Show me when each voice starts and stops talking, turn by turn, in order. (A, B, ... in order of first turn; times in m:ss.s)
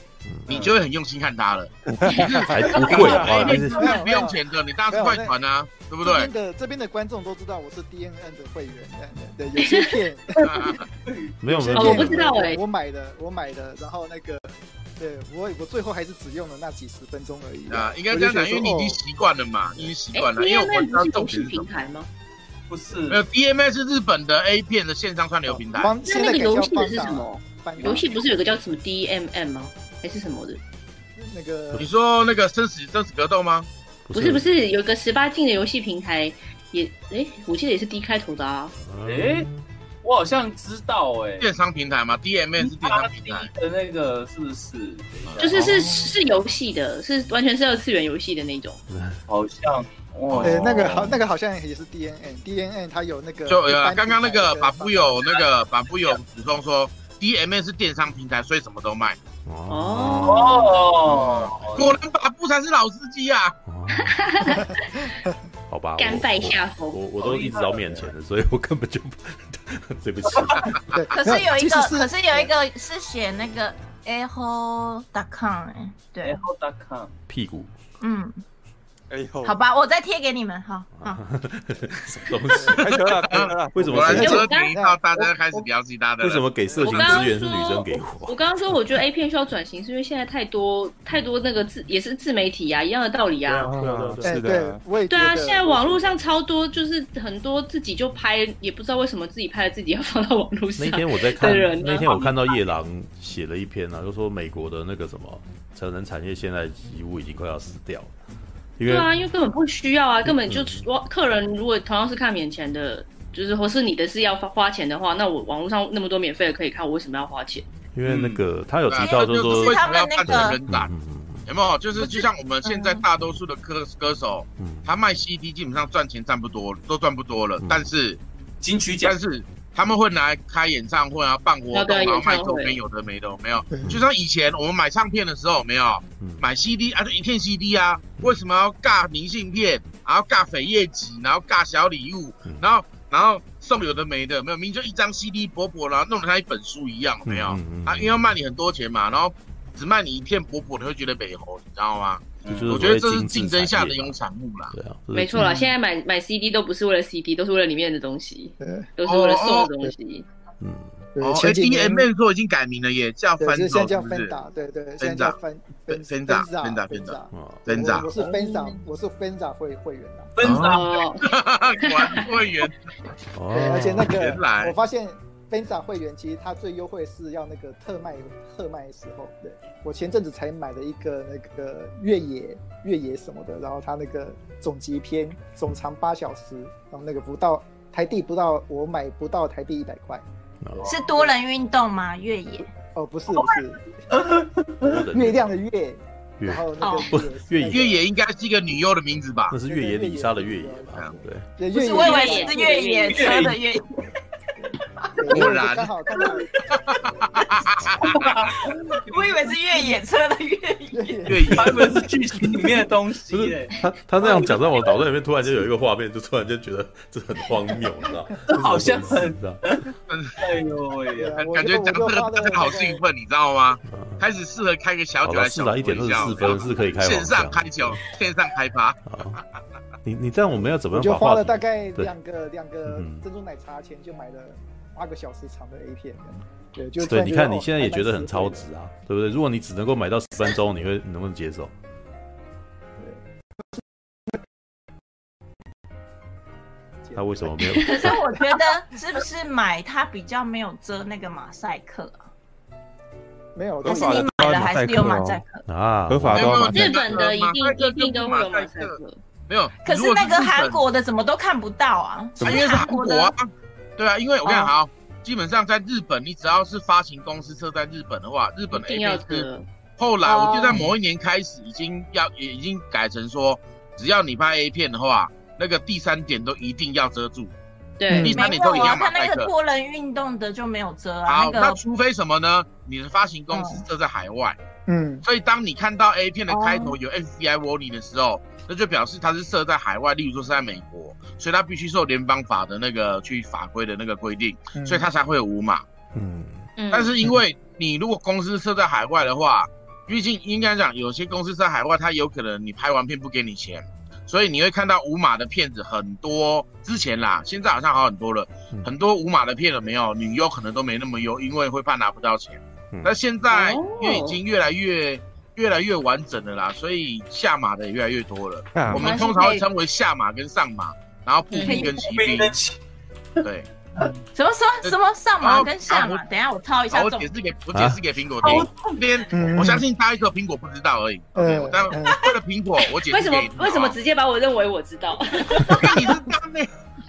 0:00.2-0:00.7 A
0:00.5-0:01.7 B
0:01.9-0:02.5 C
0:02.0-0:02.9 D
0:02.2-0:05.3 E
0:02.2-0:04.0 A
0:02.8-0:06.3 B
0:03.3-0:03.7 F
0:06.0-0:10.7 E
0:09.6-0:10.0 D
0:10.4-0:10.8 B
0:11.0-0:11.3 F
0:11.4-0:12.3 A
0:11.4-0:19.0 E
0:11.7-0:12.6 D
0:17.7-0:21.7 B
0:20.1-0:22.1 D
0:22.7-0:23.2 F
0:23.1-0:25.9 B
0:25.5-0:28.2 E
0:26.0-0:30.6 D
0:31.2-0:31.9 E
0:31.8-0:33.7 B
0:34.0-0:34.4 A
0:34.1-0:38.7 D
0:38.8-0:39.6 A
0:39.0-0:39.5 F
0:40.0-0:41.5 F
0:41.4-0:43.5 B
0:42.6-0:45.8 F
0:45.2-0:45.8 A
0:45.2-0:45.5 B
0:45.4-0:48.8 D
0:48.9-0:49.2 A
0:49.3-0:51.2 F
0:50.3-0:50.7 B
0:50.4-0:55.2 E
0:53.5-0:59.2 B
0:59.4-1:00.8 A
0:59.7-1:00.8 D
1:00.2-1:02.0 F
1:01.0-1:03.6 B
1:03.7-1:04.2 A
1:03.9-1:05.2 D
1:05.7-1:10.8 A
1:06.0-1:07.0 D
1:07.2-1:08.1 F
1:10.9-1:12.5 E
1:11.1-1:16.4 G
1:16.2-1:17.1 F
1:17.3-1:17.7 A
1:18.0-1:18.4 G
1:19.1-1:19.6 C
1:19.4-1:21.2 G
1:21.0-1:24.4 A
1:22.5-1:22.8 E
1:22.7-1:24.4 C
1:23.2-1:27.1 B
1:24.0-1:25.0 E
1:24.2-1:24.7 D
1:26.2-1:28.4 A
1:26.8-1:33.7 D
1:33.5-1:34.6 A
1:33.6-1:34.8 C
1:34.2-1:36.2 E
1:35.1-1:42.6 D
1:40.8-1:48.1 A
1:48.8-1:49.1 A
1:48.8-1:57.7 D
1:50.3-1:50.8 A
1:57.9-2:01.4 A
1:58.0-1:58.4 F
1:58.9-2:00.9 B
1:58.9-2:00.6 G
2:01.5-2:08.2 B
2:02.0-2:03.0 G
2:04.6-2:04.9 A
2:08.6-2:09.2 F
2:09.0-2:34.7 B
2:11.7-2:12.8 D
2:13.7-2:14.0 E
2:16.2-2:16.4 A
2:27.2-2:28.2 A
2:32.4-2:32.8 F
2:32.6-2:34.2 A
2:34.7-2:35.4 A
2:35.1-2:40.2 D
2:35.4-2:35.7 E
2:38.6-2:38.9 E
2:39.0-2:39.7 B
2:40.6-2:41.1 A
2:41.1-2:42.1 E
2:41.2-2:44.4 B
2:43.4-2:50.3 E
2:45.0-2:45.4 B
2:45.9-2:48.1 B
2:47.3-2:47.7 A
2:48.2-2:48.7 D
2:50.4-2:50.9 F
2:50.4-2:52.8 B
2:50.6-2:51.3 D
2:51.8-2:52.4 D
2:53.3-2:54.2 A
2:53.5-3:10.2 E
2:54.1-2:54.7 B
3:10.6-3:10.9 A
3:10.8-3:12.7 G
3:12.9-3:13.9 E
3:14.1-3:14.8 F
3:14.8-3:15.5 A
3:15.1-3:18.0 E
3:16.4-3:17.9 A
3:16.8-3:17.1 G
3:17.7-3:19.5 B
3:19.5-3:21.4 A
3:19.6-3:23.0 E
3:21.7-3:24.0 G
3:21.8-3:23.5 D
3:23.1-3:23.5 F
3:24.6-3:26.5 E
3:25.3-3:25.9 B
3:26.7-3:28.3 B
3:28.0-3:29.5 F
3:28.9-3:31.3 G
3:30.9-3:31.6 E
3:31.3-3:32.0 B
3:31.5-3:33.8 F
3:33.3-3:39.6 A
3:38.5-3:41.4 F
3:40.1-3:40.4 B
3:41.2-3:43.0 E
3:41.5-3:49.0 B
3:43.8-3:44.2 A
3:45.2-3:48.0 A
3:46.2-3:46.5 E
3:49.0-3:49.4 A
3:50.0-3:52.1 A
3:50.5-3:58.6 E
3:52.9-3:53.2 A
3:57.0-4:01.7 A
4:07.1-4:08.2 E
4:07.2-4:08.2 A
4:07.8-4:12.2 G
4:13.6-4:14.6 E
4:13.8-4:15.4 C
4:13.8-4:15.6 G
4:15.7-4:16.8 A
4:16.1-4:16.9 C
4:16.3-4:19.0 B
4:16.7-4:19.2 D
4:19.5-4:20.8 B
4:19.8-4:23.3 G
4:22.4-4:29.4 B
4:24.4-4:24.7 G
4:28.7-4:29.7 D
4:30.0-4:37.5 B
4:30.2-4:30.8 G
4:38.0-4:38.9 D
4:38.1-4:38.4 E
4:38.2-4:39.5 B
4:38.3-4:41.8 G
4:41.2-4:44.6 B
4:43.5-4:43.8 G
4:44.9-4:45.2 E
4:45.2-4:55.8 B
4:46.5-4:47.0 G
4:54.7-4:55.1 E
4:56.1-4:56.7 A
4:56.8-4:57.1 D
4:56.9-5:22.6 B
5:13.5-5:14.4 D
5:18.7-5:19.2 C
5:18.9-5:19.6 G
5:21.5-5:22.8 F
5:21.6-5:22.2 G
5:23.4-5:23.7 B
5:24.3-5:27.3 G
5:24.8-5:26.2 B
5:26.9-5:33.9 B
5:27.7-5:28.5 A
5:28.4-5:29.0 F
5:29.3-5:29.8 E
5:31.3-5:32.3 E
5:33.1-5:36.0 D
5:35.6-5:36.7 B